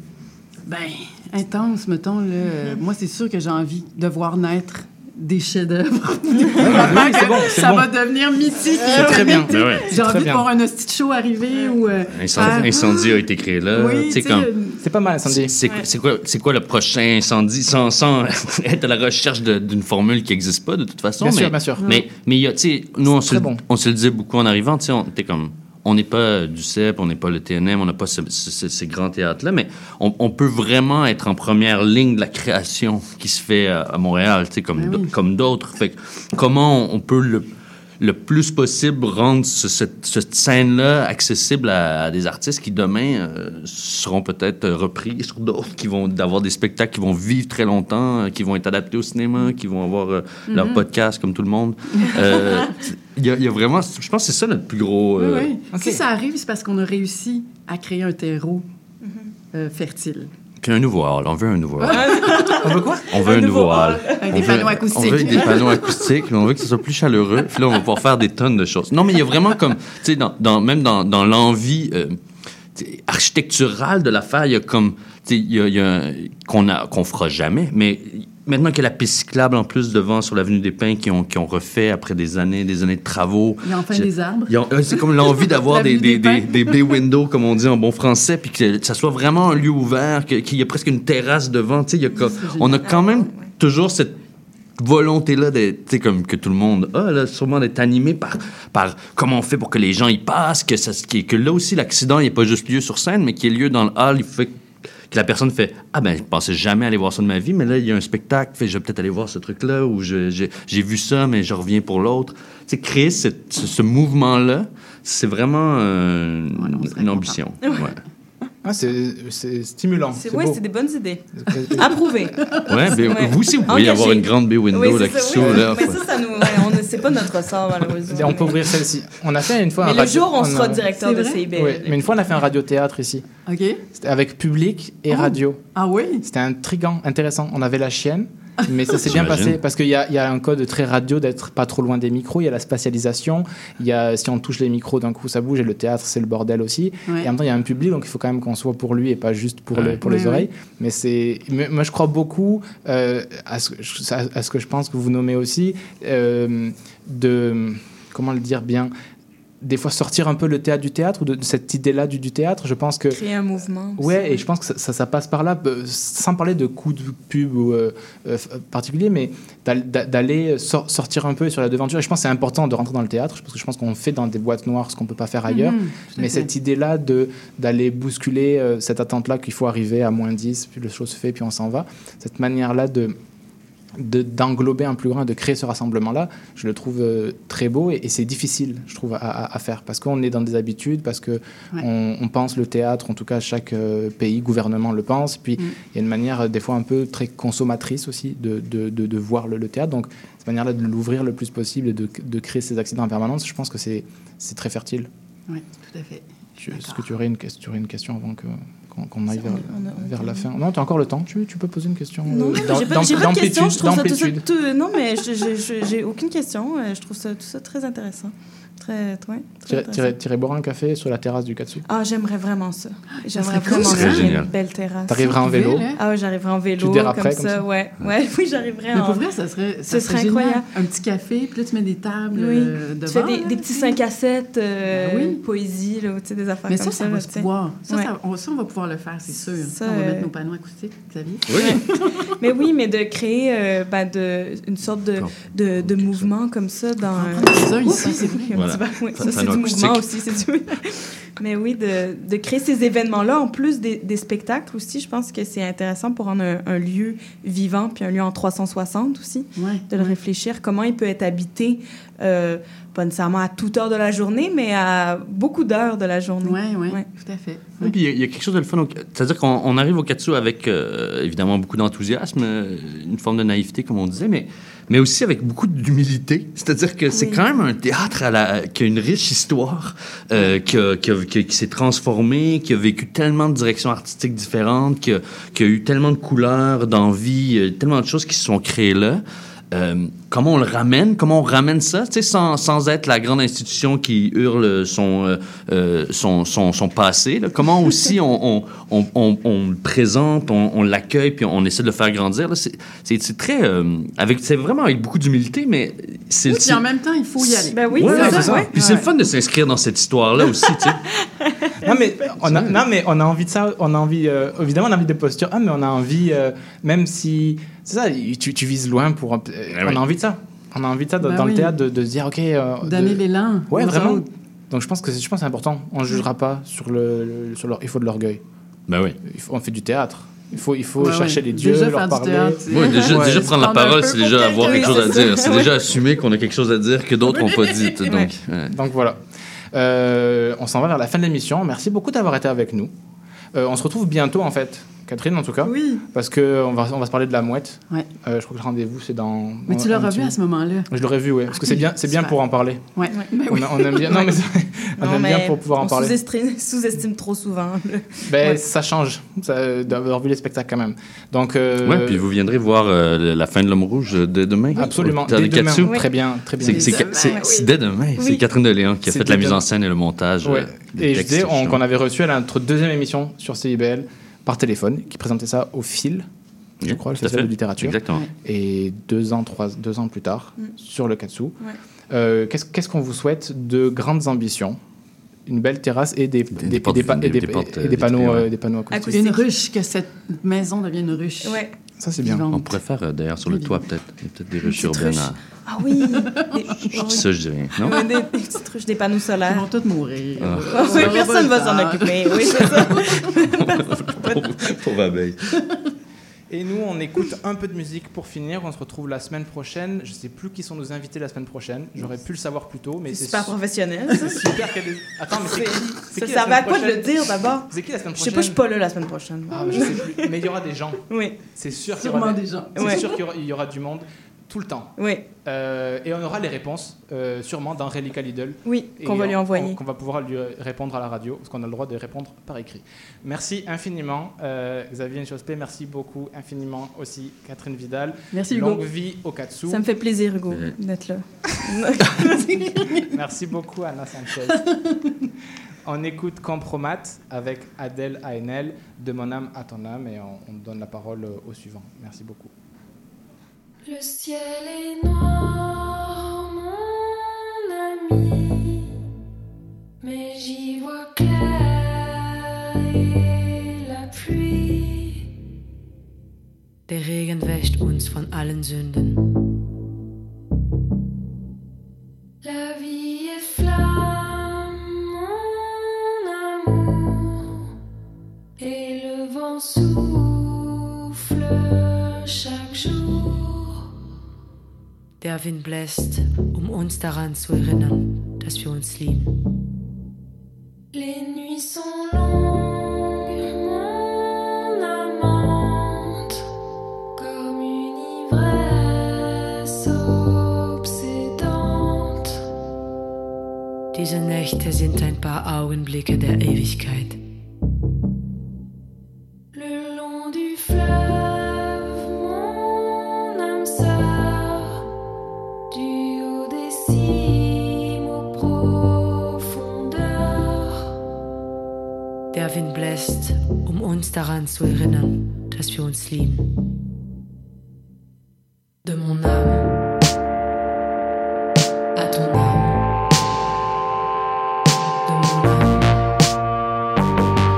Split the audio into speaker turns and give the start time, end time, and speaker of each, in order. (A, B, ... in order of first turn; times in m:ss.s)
0:00.7-0:14.8 A
0:06.6-0:07.9 B
0:08.8-0:09.9 C
0:08.9-0:10.5 B
0:09.5-0:09.8 D
0:11.5-0:11.8 C
0:12.1-0:14.5 D
0:14.8-0:15.5 B
0:15.3-0:37.5 D
0:21.2-0:21.8 B
0:21.8-0:22.1 A
0:23.1-0:23.6 B
0:34.7-0:35.2 A
0:38.0-0:55.5 D
0:50.5-0:50.9 A
0:52.0-0:52.7 A
0:55.2-0:58.7 A
0:55.7-0:56.0 B
0:59.0-0:59.3 C
0:59.5-1:00.3 A
1:00.6-1:02.1 D
1:01.8-1:02.7 A
1:01.9-1:05.5 C
1:02.6-1:03.1 B
1:03.1-1:12.2 D
1:03.4-1:06.1 A
1:12.8-1:34.1 D
1:23.6-1:27.0 A
1:32.1-1:33.5 C
1:32.2-1:33.0 A
1:34.8-1:44.6 D
1:45.1-1:58.0 D
1:56.5-1:57.9 A
1:58.6-2:00.6 B
2:00.2-2:02.4 C
2:01.4-2:02.0 B
2:02.4-2:03.0 A
2:02.7-2:06.0 D
2:02.9-2:08.6 C
2:05.6-2:06.8 A
2:08.1-2:10.9 B
2:09.8-2:12.2 C
2:10.9-2:11.5 A
2:11.5-2:13.2 B
2:13.5-2:13.8 A
2:13.9-2:15.6 B
2:15.1-2:16.2 A
2:16.2-2:38.9 B
2:18.7-2:19.0 A
2:19.1-2:19.6 D
2:30.0-2:30.5 A
2:39.6-2:43.2 B
2:43.1-2:44.4 C
2:44.0-3:03.2 B
2:55.5-2:56.5 A
3:04.0-3:25.1 B
3:25.5-3:27.0 A
3:26.6-3:34.4 B
3:29.4-3:30.4 C
3:32.3-3:40.2 C
3:39.7-3:41.8 B
3:41.9-3:45.4 C
3:43.3-3:44.4 A
3:43.7-3:44.5 D
3:45.1-3:45.9 B
3:45.1-3:46.0 A
3:46.0-3:49.2 C
3:46.8-3:47.6 B
3:48.9-3:54.0 A
3:49.9-3:50.7 C
3:52.3-3:58.1 C
3:54.9-3:55.4 A
3:56.7-4:02.3 A
3:59.4-4:00.3 C
4:01.5-4:01.8 D
4:01.5-4:01.8 C
4:02.4-4:27.1 C
4:05.2-4:06.3 D
4:07.2-4:08.5 A
4:08.5-4:10.1 D
4:19.6-4:20.2 A
4:26.4-4:28.0 A
4:27.8-5:06.8 D
4:37.1-4:37.4 C
4:57.7-4:58.2 A
5:06.5-5:09.1 A
5:07.4-5:11.0 D
5:07.7-5:08.8 C
5:08.3-5:08.7 B
5:11.4-5:12.3 C
5:11.8-5:28.4 B
5:12.4-5:12.8 D
5:19.7-5:20.0 D
5:21.2-5:21.8 A
5:22.8-5:24.3 A
5:28.9-5:29.2 D
5:29.2-5:33.5 B
5:31.0-5:35.9 A
5:32.7-5:38.7 D
5:34.5-5:35.8 C
5:37.3-5:38.2 A
5:38.7-5:39.2 B
5:39.7-5:42.9 B
5:43.6-5:50.4 B
5:45.6-5:46.0 A
5:49.7-5:50.9 A
5:50.9-5:52.8 B
5:51.5-5:52.4 A
5:53.0-5:54.4 A
5:53.1-5:53.3 C
5:53.5-5:56.2 B
5:55.0-5:58.6 C
5:58.3-6:02.2 B
6:01.8-6:06.0 D
6:04.8-6:07.3 B
6:05.8-6:06.1 C
6:06.6-6:11.8 D
6:06.7-6:07.5 A
6:06.7-6:08.4 C
6:09.1-6:09.6 B
6:10.4-6:16.3 B
6:16.8-6:18.2 D
6:16.8-6:21.6 B
6:22.1-6:24.8 B
6:25.5-6:29.2 B
6:26.5-6:28.5 D
6:28.9-6:29.5 C
6:29.1-6:31.7 A
6:31.4-6:31.7 C
6:32.0-6:32.5 B
6:32.2-6:32.8 A
6:32.5-6:35.4 D
6:33.4-6:33.9 A
6:34.6-6:39.7 C
6:36.1-6:36.5 A
6:36.9-6:38.0 D
6:39.4-6:43.0 A
6:40.4-6:41.3 D
6:40.7-6:44.6 C
6:42.6-6:42.8 D
6:43.6-6:45.4 D
6:46.5-6:53.6 B
6:53.1-6:54.5 C
6:54.1-6:58.6 B
6:55.3-7:00.2 C
6:59.5-7:01.0 B
7:01.1-7:01.4 C
7:01.6-7:04.9 B
7:01.9-7:03.2 A
7:02.8-7:03.1 C
7:05.0-7:05.3 C
7:05.4-7:19.8 B
7:08.6-7:09.8 C
7:18.3-7:18.8 A
7:19.7-7:22.6 C
7:20.5-7:20.8 D
7:22.4-7:23.1 A
7:23.1-7:24.6 B
7:25.9-7:32.5 B
7:33.8-7:38.9 E
7:40.0-7:45.3 E
7:46.9-7:49.3 F
7:52.4-7:57.6 E
7:58.6-8:03.8 E
8:05.2-8:09.3 F
8:10.9-8:16.4 E
8:17.2-8:22.4 E
8:23.9-8:27.2 F
8:29.5-8:34.8 E
8:35.7-8:40.9 E
8:42.3-8:46.5 F
8:48.8-8:49.7 F
8:52.0-8:52.8 F
8:55.0-8:56.0 F